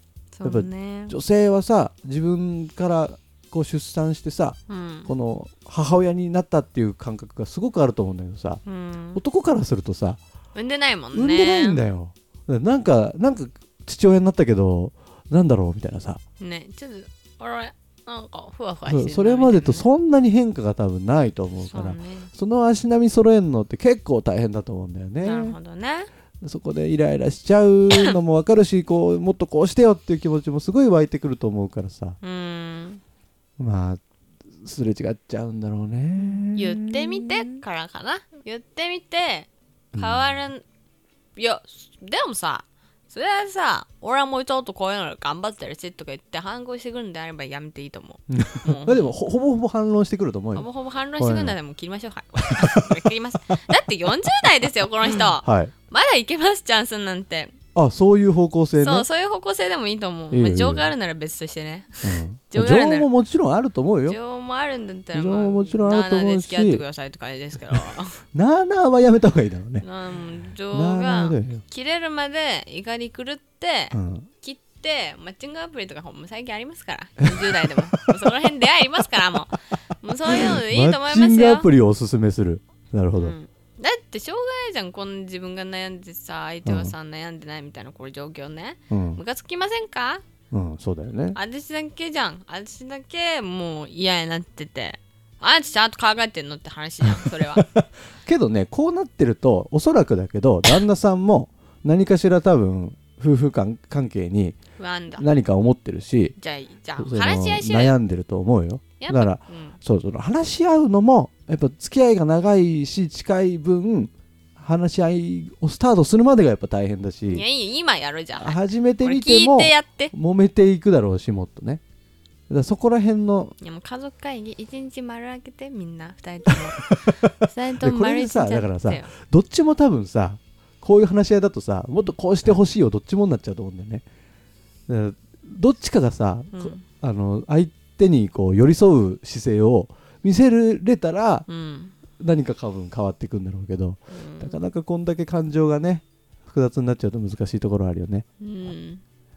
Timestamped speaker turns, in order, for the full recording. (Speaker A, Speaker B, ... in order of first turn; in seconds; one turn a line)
Speaker A: 0.3-1.1
Speaker B: 0.4-8.6
Speaker A: 4.7-5.1
Speaker A: 8.6-9.2
Speaker B: 9.1-10.2
Speaker A: 10.5-11.8
Speaker B: 11.1-16.2
Speaker A: 16.4-19.9
Speaker B: 18.9-25.6
Speaker A: 21.6-22.3
Speaker A: 25.2-26.1
Speaker B: 26.4-32.2
Speaker A: 32.2-33.0
Speaker B: 33.6-34.0
Speaker B: 34.6-37.4
Speaker A: 36.2-40.6
Speaker B: 39.9-40.4
Speaker A: 41.4-49.1
Speaker B: 48.3-50.7
Speaker A: 50.5-57.5
Speaker B: 51.2-51.5
Speaker B: 52.5-52.9
Speaker B: 55.3-55.7
Speaker B: 57.8-59.0
Speaker A: 58.8-63.1
Speaker B: 60.3-60.9
Speaker B: 62.0-64.2
Speaker A: 64.0-68.2
Speaker B: 65.1-66.8
Speaker B: 68.3-69.8
Speaker A: 69.8-81.7
Speaker B: 70.7-71.6
Speaker B: 73.9-74.3
Speaker B: 80.2-83.3
Speaker A: 83.1-90.2
Speaker B: 86.6-86.9
Speaker B: 88.9-89.2
Speaker B: 90.5-91.4
Speaker A: 91.3-97.7
Speaker B: 97.0-104.5
Speaker A: 104.8-105.2
Speaker B: 105.2-106.3
Speaker A: 106.4-108.0
Speaker B: 107.0-117.4
Speaker A: 109.0-109.8
Speaker A: 117.3-120.1
Speaker B: 118.3-121.8
Speaker B: 122.5-123.5
Speaker A: 123.6-129.1
Speaker B: 126.5-134.0
Speaker B: 134.9-141.5
Speaker A: 136.5-136.8
Speaker A: 141.5-141.9
Speaker B: 142.2-148.7
Speaker A: 144.1-144.6
Speaker A: 148.4-149.0